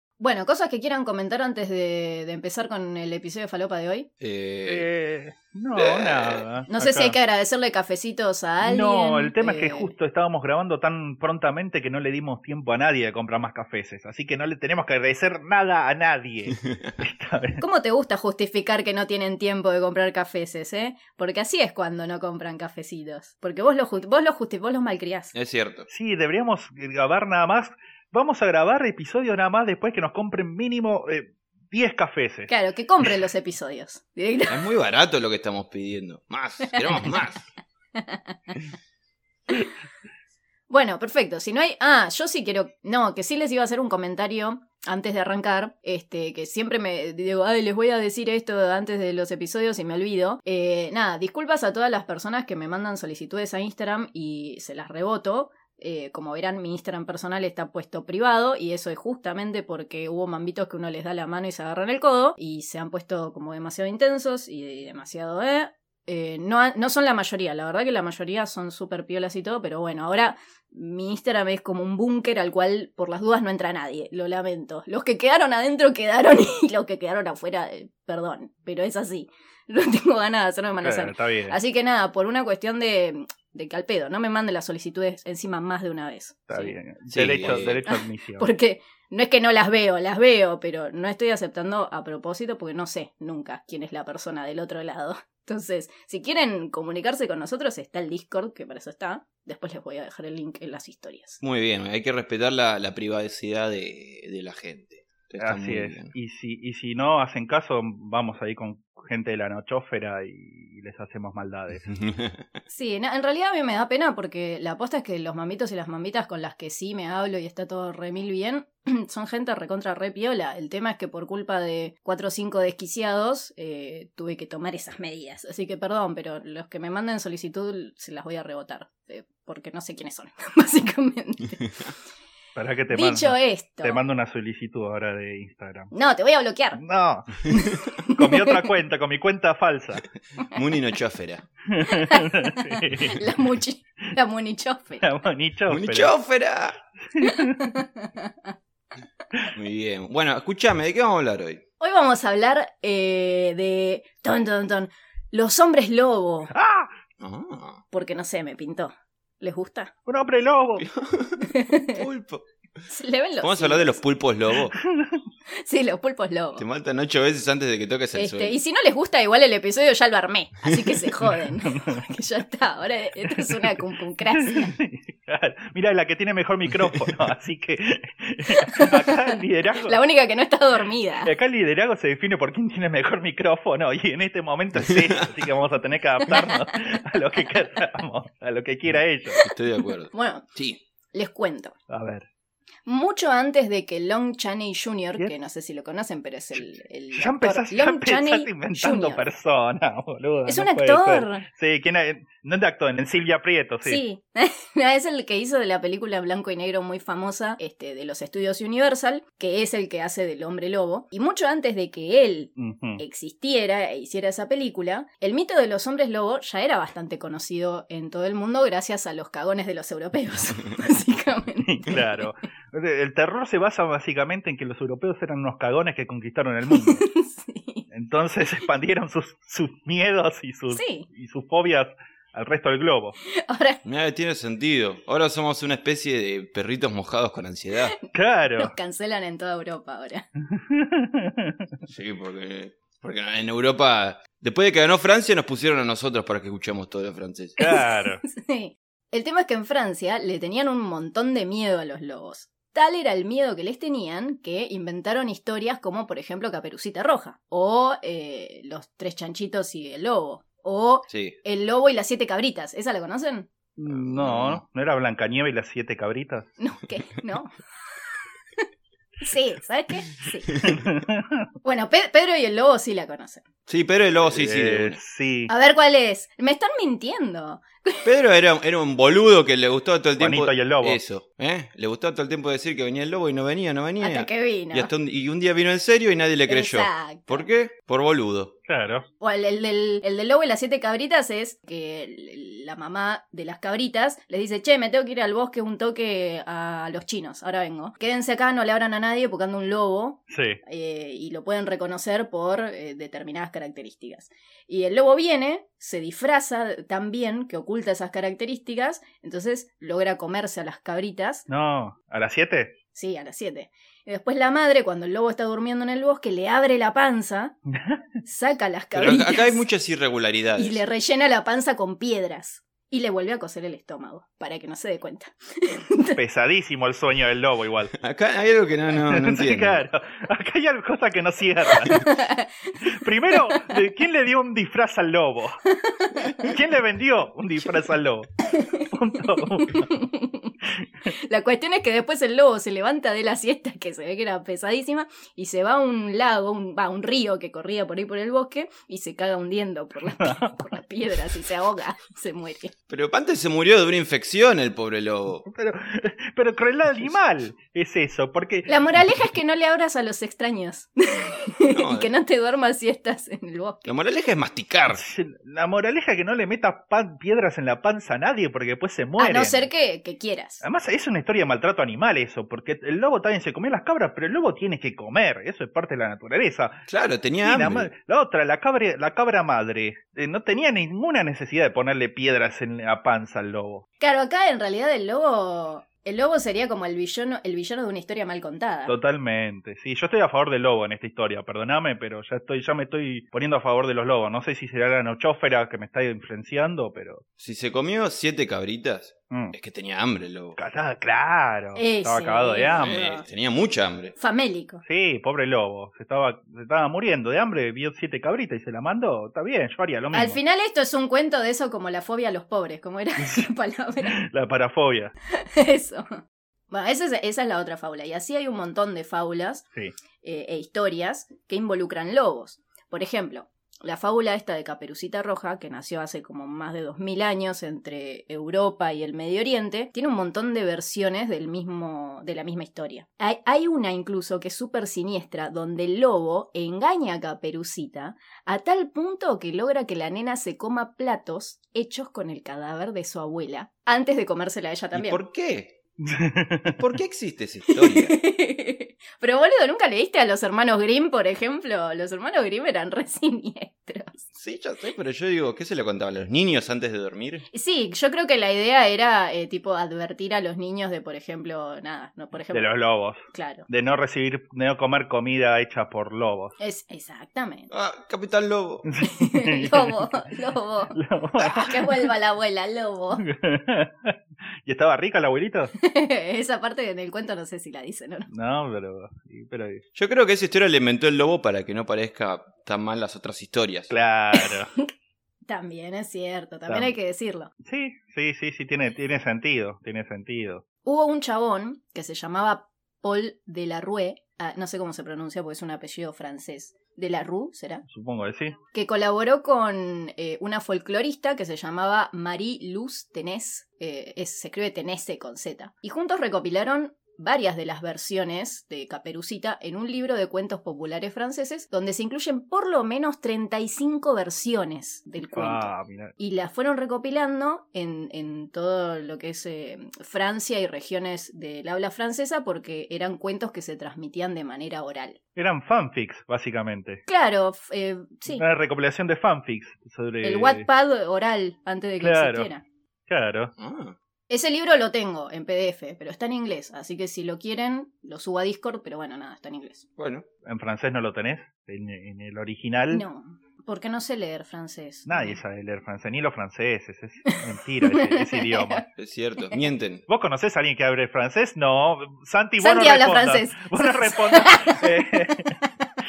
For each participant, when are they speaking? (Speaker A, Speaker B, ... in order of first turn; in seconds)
Speaker A: 0.2-4.1, 6.7-9.9, 17.6-25.3, 32.5-34.7, 36.8-37.1, 38.0-38.3, 40.7-86.7, 87.8-101.4, 112.7-131.7, 132.9-134.0, 135.9-136.8, 138.0-138.7, 141.8-145.1, 147.2-148.3, 151.8-156.5, 157.9-159.9, 161.4-162.0, 162.9-164.0, 165.5-166.6, 168.2-174.7, 178.7-179.0, 179.8-181.3, 186.3-186.6, 190.1-190.4, 191.1-191.7, 192.8-199.3, 200.5-201.4, 203.8-222.3, 226.7-227.8, 230.7-231.1, 233.3-233.8, 238.6-240.3, 247.6-263.5, 266.6-267.5, 269.2-270.5, 271.6-273.4, 275.5-278.1, 284.0-284.9, 286.5-287.5, 289.2-311.4, 312.9-317.5, 318.2-319.6, 320.6-326.2, 331.8-332.7, 333.3-333.6, 335.8-336.5, 338.4-338.9, 339.6-340.5, 341.1-352.7, 358.7-363.9, 369.2-370.6, 384.0-388.9, 401.7-403.2, 404.2-404.8, 410.1-414.2, 415.3-419.6, 420.2-445.2, 447.7-454.2, 457.5-462.7, 463.3-463.7, 466.6-467.7, 469.0-473.2, 475.8-478.3, 484.3-484.6, 485.5-487.5, 490.8-497.8, 498.7-525.2, 527.1-528.4, 530.2-532.6, 534.3-539.9, 542.9-545.4, 547.3-548.8, 552.6-555.6
Speaker B: 4.2-4.8, 5.7-6.5, 16.6-16.9, 25.3-25.9, 34.5-37.5, 87.1-87.8, 101.4-106.1, 111.9-112.4, 140.5-141.4, 145.7-146.8, 149.5-151.6, 157.2-157.8, 160.8-162.4, 163.4-164.8, 166.6-168.6, 184.8-185.2, 189.4-190.8, 233.8-238.0, 241.8-247.6, 261.1-261.4, 263.9-264.6, 273.7-275.0, 278.0-288.5, 318.9-320.8, 328.0-329.8, 352.9-355.4, 361.7-362.1, 363.9-365.0, 376.9-377.9, 397.4-400.6, 402.7-404.1, 444.9-445.7, 446.8-448.1, 454.3-457.4, 467.7-468.9, 479.9-483.9, 533.6-534.0, 540.0-540.2, 549.0-550.0
Speaker C: 4.7-7.2, 8.6-17.6, 25.9-32.5, 80.8-81.6, 86.5-88.5, 105.4-111.9, 132.6-135.9, 136.8-140.1, 141.7-143.3, 145.0-146.1, 147.1-147.8, 156.5-156.9, 160.1-160.9, 164.7-165.2, 171.7-172.0, 173.3-173.8, 174.3-180.0, 181.2-189.4, 191.9-192.2, 197.1-204.0, 212.6-213.0, 221.6-227.0, 227.9-233.2, 238.1-238.7, 240.5-241.7, 247.6-248.2, 263.8-266.5, 270.6-271.5, 274.2-275.5, 280.2-281.0, 288.6-289.1, 300.3-300.6, 311.5-312.8, 317.7-318.0, 326.1-327.9, 329.1-332.1, 332.8-335.6, 336.4-339.9, 350.0-350.6, 355.4-358.7, 364.9-369.7, 370.6-376.9, 377.4-383.8, 388.9-397.2, 400.6-403.2, 404.8-410.4, 414.1-415.1, 446.0-446.8, 462.5-466.5, 468.9-470.1, 470.9-472.1, 473.2-475.7, 478.3-479.8, 483.9-484.7, 486.7-486.9, 487.6-490.6, 497.9-498.6, 515.2-516.1, 525.4-527.0, 528.3-530.7, 532.0-532.5, 533.1-533.5, 540.4-543.0, 545.1-548.9, 550.1-555.6